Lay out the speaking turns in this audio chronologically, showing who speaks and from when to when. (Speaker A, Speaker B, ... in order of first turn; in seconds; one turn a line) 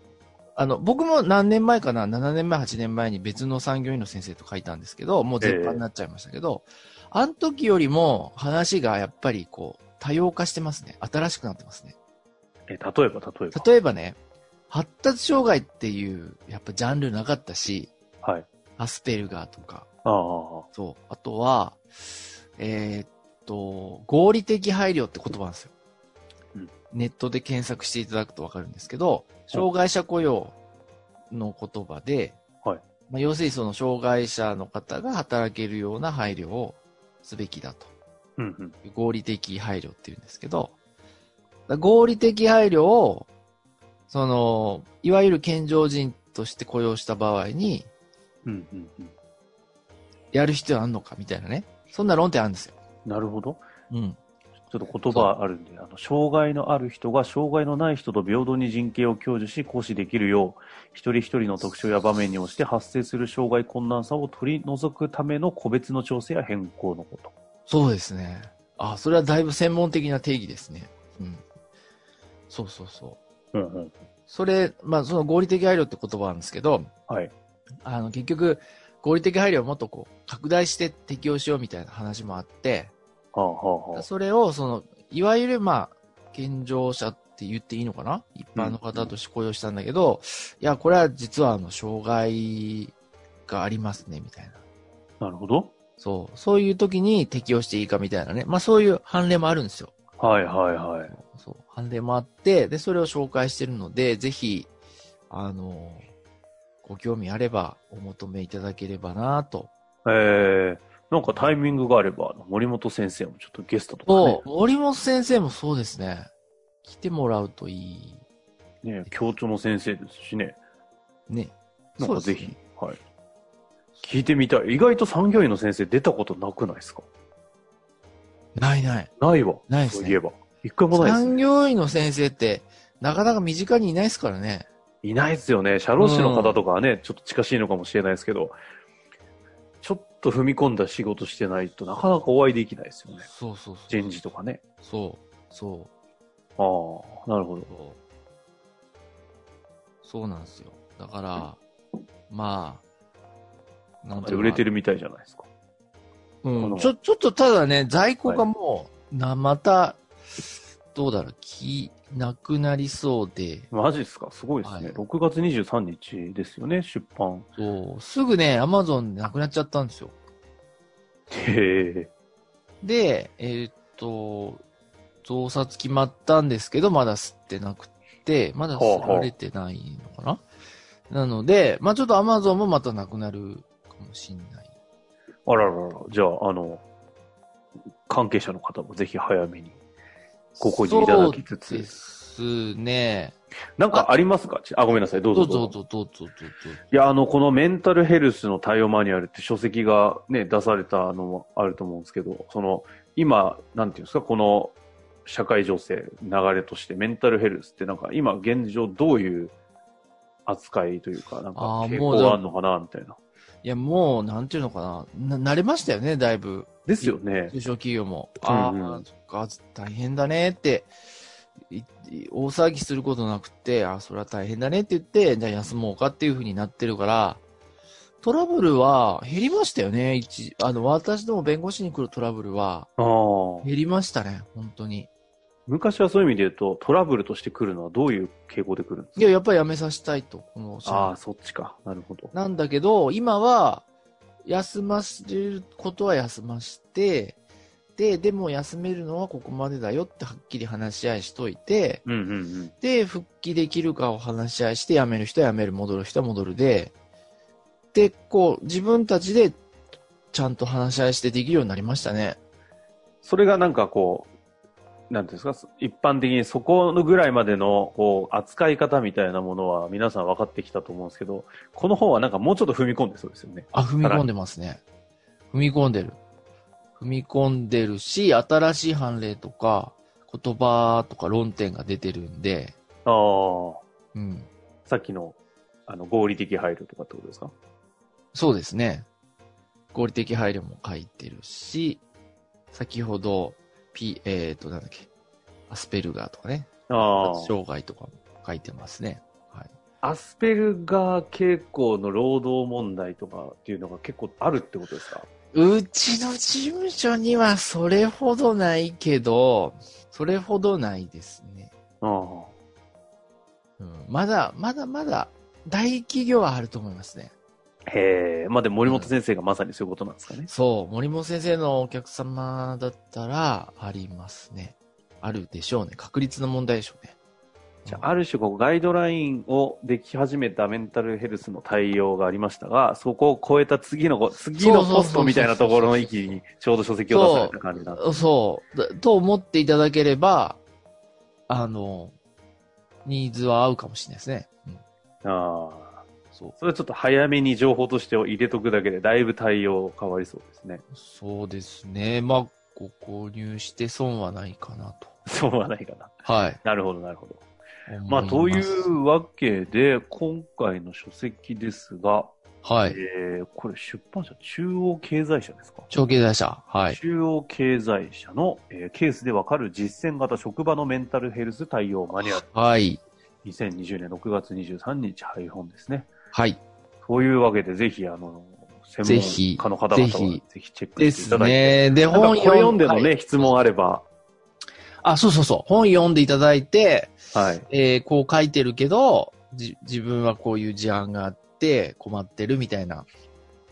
Speaker A: 0.6-12.0
Speaker B: 5.4-5.8
Speaker B: 12.7-13.7
Speaker A: 13.5-14.2
Speaker A: 14.7-17.9
Speaker B: 18.2-18.5
Speaker A: 18.8-19.9
Speaker B: 20.1-20.7
Speaker A: 20.7-21.8
Speaker A: 22.6-25.7
Speaker A: 26.9-30.6
Speaker A: 31.3-32.4
Speaker A: 33.1-37.9
Speaker B: 38.4-38.8
Speaker A: 38.8-40.8
Speaker A: 41.7-43.3
Speaker A: 44.1-47.9
Speaker B: 48.5-49.1
Speaker A: 50.3-52.8
Speaker B: 53.1-53.6
Speaker A: 53.9-54.2
Speaker B: 54.7-67.3
Speaker A: 67.7-71.4
Speaker A: 72.5-73.2
Speaker B: 73.5-74.0
Speaker A: 74.3-76.9
Speaker B: 77.1-77.3
Speaker A: 77.8-82.9
Speaker B: 83.3-84.1
Speaker A: 84.0-93.0
Speaker B: 88.6-89.1
Speaker A: 93.5-94.6
Speaker B: 95.2-95.7
Speaker A: 96.0-99.9
Speaker B: 100.2-101.1
Speaker A: 101.1-104.7
Speaker A: 105.3-106.1
Speaker A: 106.8-109.7
Speaker B: 110.0-114.4
Speaker A: 114.1-116.3
Speaker A: 116.8-118.2
Speaker B: 118.8-120.6
Speaker A: 121.3-122.6
Speaker B: 122.0-123.0
Speaker B: 124.0-127.1
Speaker A: 128.6-129.1
Speaker B: 129.2-131.4
Speaker A: 129.7-130.2
Speaker A: 130.9-134.7
Speaker B: 135.0-138.6
Speaker A: 136.0-136.6
Speaker B: 139.8-143.3
Speaker A: 143.3-144.2
Speaker B: 143.9-144.6
Speaker A: 144.8-145.9
Speaker B: 146.6-147.7
Speaker A: 147.7-148.0
Speaker A: 150.0-151.6
Speaker A: 152.3-152.8
Speaker A: 154.0-154.7
Speaker B: 154.2-155.5
Speaker A: 156.4-160.0
Speaker B: 156.6-156.9
Speaker A: 160.9-163.7
Speaker B: 163.7-167.5
Speaker A: 164.6-165.0
Speaker A: 167.6-170.2
Speaker B: 171.3-172.1
Speaker A: 172.8-174.6
Speaker A: 175.2-180.4
Speaker B: 178.7-179.3
Speaker A: 181.1-184.7
Speaker B: 185.5-186.8
Speaker B: 188.1-189.8
Speaker A: 190.6-193.4
Speaker B: 190.6-192.0
Speaker B: 193.8-195.7
Speaker A: 195.3-196.9
Speaker B: 196.9-204.8
Speaker B: 205.3-209.5
Speaker B: 210.5-213.2
Speaker A: 211.6-212.4
Speaker A: 213.6-220.9
Speaker B: 216.9-217.6
Speaker B: 218.5-219.0
Speaker A: 221.7-227.4
Speaker A: 228.2-232.9
Speaker B: 233.0-233.7
Speaker A: 233.6-235.1
Speaker B: 235.7-239.2
Speaker A: 239.2-241.2
Speaker B: 240.8-242.3
Speaker A: 242.3-243.9
Speaker A: 244.4-247.4
Speaker A: 248.0-252.0
Speaker B: 252.1-252.7
Speaker A: 252.8-256.9
Speaker A: 257.9-259.6
Speaker A: 260.3-262.4
Speaker B: 263.2-264.3
Speaker B: 265.1-274.3
Speaker A: 273.7-274.8
Speaker A: 275.5-276.2
Speaker A: 277.0-282.8
Speaker B: 283.1-283.8
Speaker A: 284.1-284.5
Speaker B: 284.9-285.4
Speaker B: 285.9-287.5
Speaker A: 288.3-289.1
Speaker A: 289.9-292.0
Speaker A: 292.7-295.1
Speaker A: 295.7-299.7
Speaker B: 296.9-297.5
Speaker B: 300.0-305.3
Speaker A: 305.5-311.7
Speaker B: 312.0-312.5
Speaker A: 313.8-317.3
Speaker B: 317.9-320.5
Speaker A: 318.9-319.1
Speaker A: 320.5-327.2
Speaker A: 327.8-328.1
Speaker B: 327.9-338.1
Speaker A: 334.6-336.1
Speaker A: 337.1-340.6
Speaker A: 341.5-342.1
Speaker A: 343.1-344.8
Speaker B: 345.2-346.0
Speaker B: 346.6-350.8
Speaker A: 350.9-355.1
Speaker B: 355.3-357.4
Speaker A: 356.2-356.6
Speaker A: 357.9-358.9
Speaker B: 358.1-362.3
Speaker A: 362.6-363.0
Speaker B: 362.9-365.9
Speaker A: 365.9-367.0
Speaker B: 366.9-372.5
Speaker A: 372.2-373.0
Speaker B: 373.4-376.1
Speaker A: 376.3-376.6
Speaker B: 377.0-384.1
Speaker A: 379.0-380.4
Speaker A: 381.0-383.5
Speaker A: 385.0-387.1
Speaker B: 387.3-387.7
Speaker A: 387.7-393.1